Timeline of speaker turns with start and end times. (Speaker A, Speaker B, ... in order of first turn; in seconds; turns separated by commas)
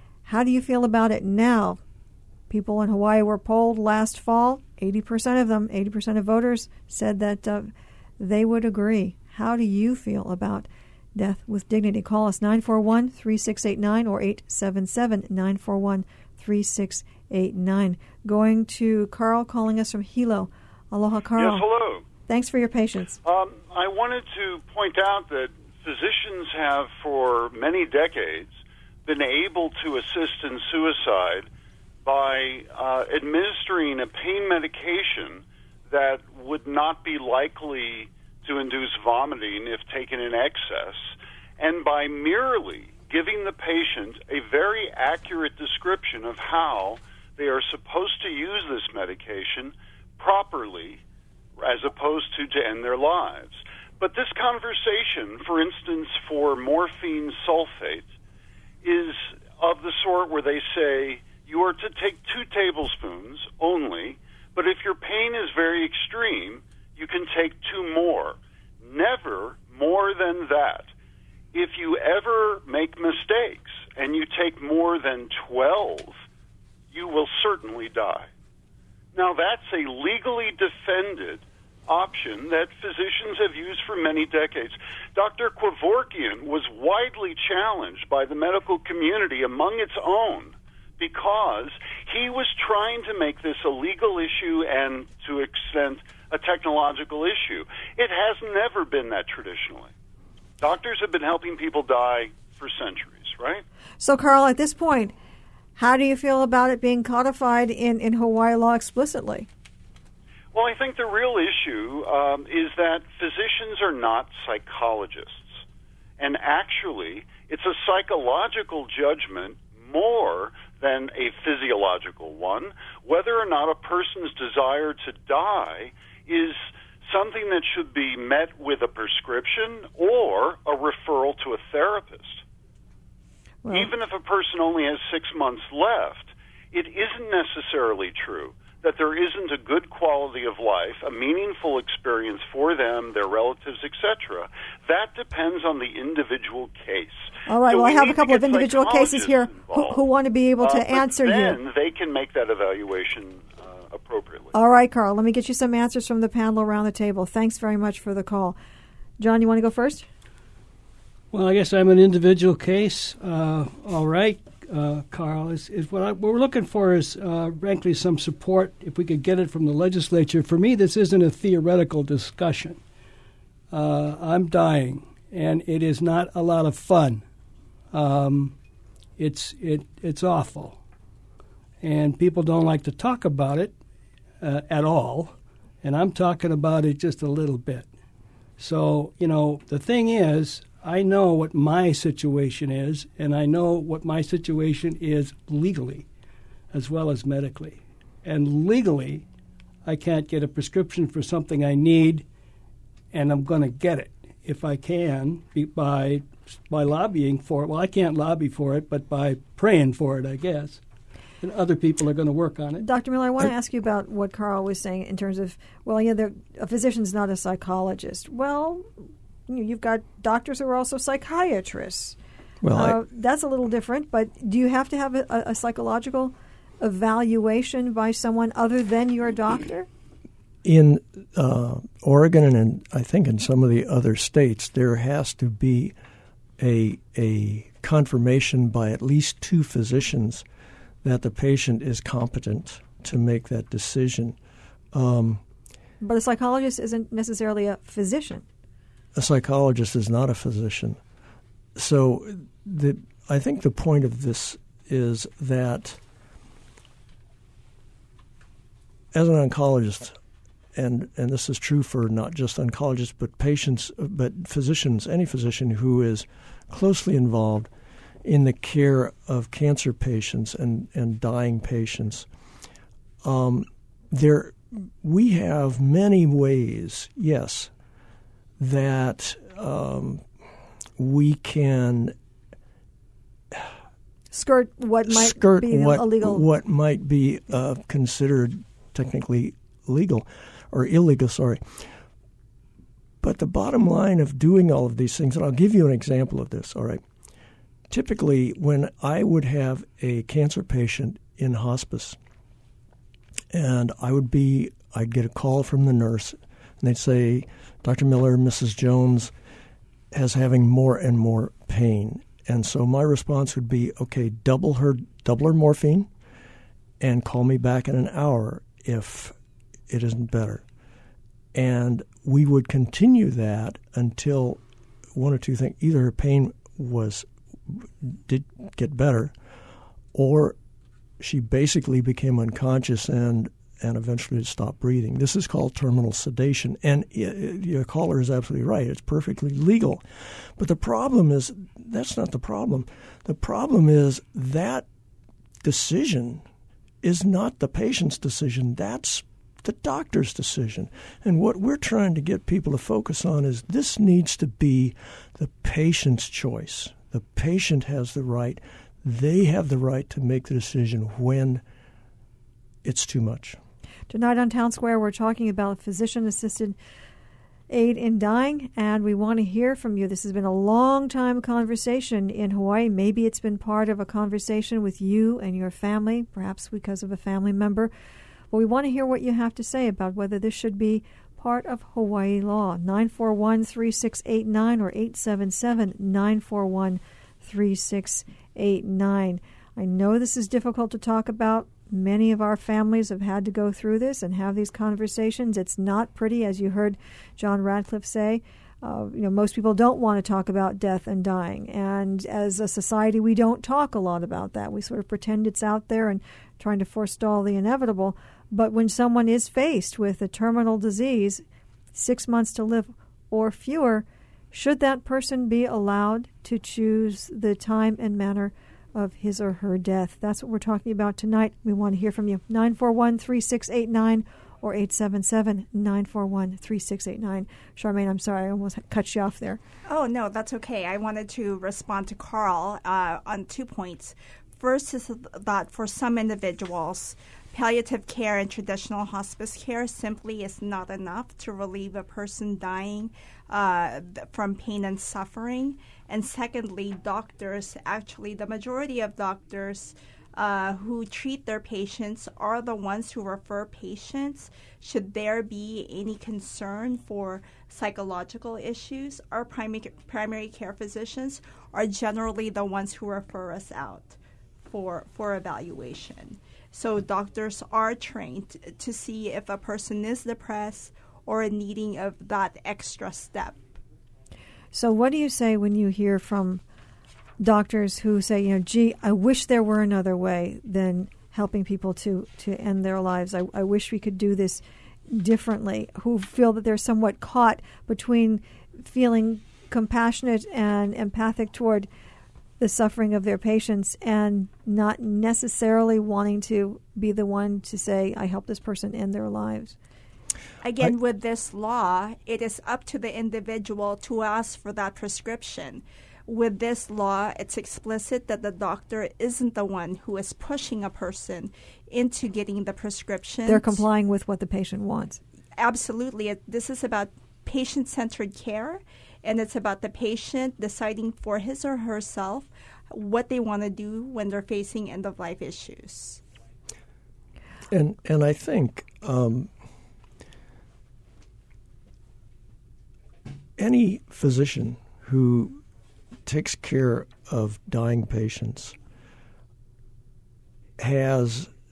Speaker A: 0.3-1.8, Speaker A: 2.5-21.6, Speaker B: 21.4-22.0, Speaker A: 22.3-23.2, Speaker B: 23.2-28.5, Speaker B: 29.1-31.5, Speaker B: 32.0-51.0, Speaker B: 51.6-58.1, Speaker B: 58.8-70.9, Speaker B: 71.5-76.2, Speaker B: 76.9-78.3, Speaker B: 79.1-99.9, Speaker B: 100.6-103.7, Speaker A: 104.0-105.1, Speaker A: 105.8-109.5, Speaker B: 110.5-115.6, Speaker B: 116.2-132.4, Speaker A: 133.7-133.9, Speaker B: 133.7-150.0, Speaker A: 147.5-151.6, Speaker B: 150.6-154.5, Speaker A: 154.5-158.6, Speaker A: 159.2-160.1, Speaker C: 161.3-172.8, Speaker C: 173.7-177.2, Speaker C: 177.9-178.6, Speaker C: 179.2-180.8, Speaker C: 181.8-183.8, Speaker C: 184.4-187.9, Speaker C: 188.6-196.1, Speaker C: 196.7-199.3, Speaker C: 199.9-202.2, Speaker C: 203.1-210.8, Speaker C: 211.4-212.9, Speaker A: 212.8-218.9, Speaker A: 219.5-222.2, Speaker D: 222.6-223.0, Speaker A: 222.7-229.9, Speaker D: 230.6-235.9, Speaker D: 236.6-240.4, Speaker D: 241.0-244.4, Speaker D: 244.9-245.4, Speaker A: 246.0-248.4, Speaker D: 249.1-251.0, Speaker D: 251.8-256.0, Speaker D: 259.1-260.2, Speaker D: 260.8-267.7, Speaker D: 268.2-272.3, Speaker D: 273.2-277.7, Speaker D: 278.6-280.2, Speaker D: 281.0-282.1, Speaker A: 284.3-286.4, Speaker D: 285.1-291.9, Speaker D: 293.2-297.0, Speaker D: 297.9-302.2, Speaker D: 303.5-309.3, Speaker D: 310.1-316.1, Speaker D: 317.0-319.3, Speaker D: 319.9-320.6, Speaker D: 321.5-324.6, Speaker D: 325.1-329.3, Speaker D: 330.1-330.6, Speaker D: 331.2-344.9, Speaker D: 345.6-346.4, Speaker D: 347.0-361.6, Speaker D: 362.8-363.6, Speaker A: 364.1-366.8, Speaker A: 367.7-377.9, Speaker A: 378.5-429.6, Speaker E: 429.9-473.8, Speaker A: 474.7-476.6, Speaker A: 477.4-491.9, Speaker A: 492.6-499.8, Speaker E: 500.6-513.8, Speaker A: 513.5-515.2, Speaker E: 515.6-526.2, Speaker D: 527.7-529.5, Speaker D: 533.6-535.6, Speaker D: 536.3-538.8, Speaker D: 540.8-541.5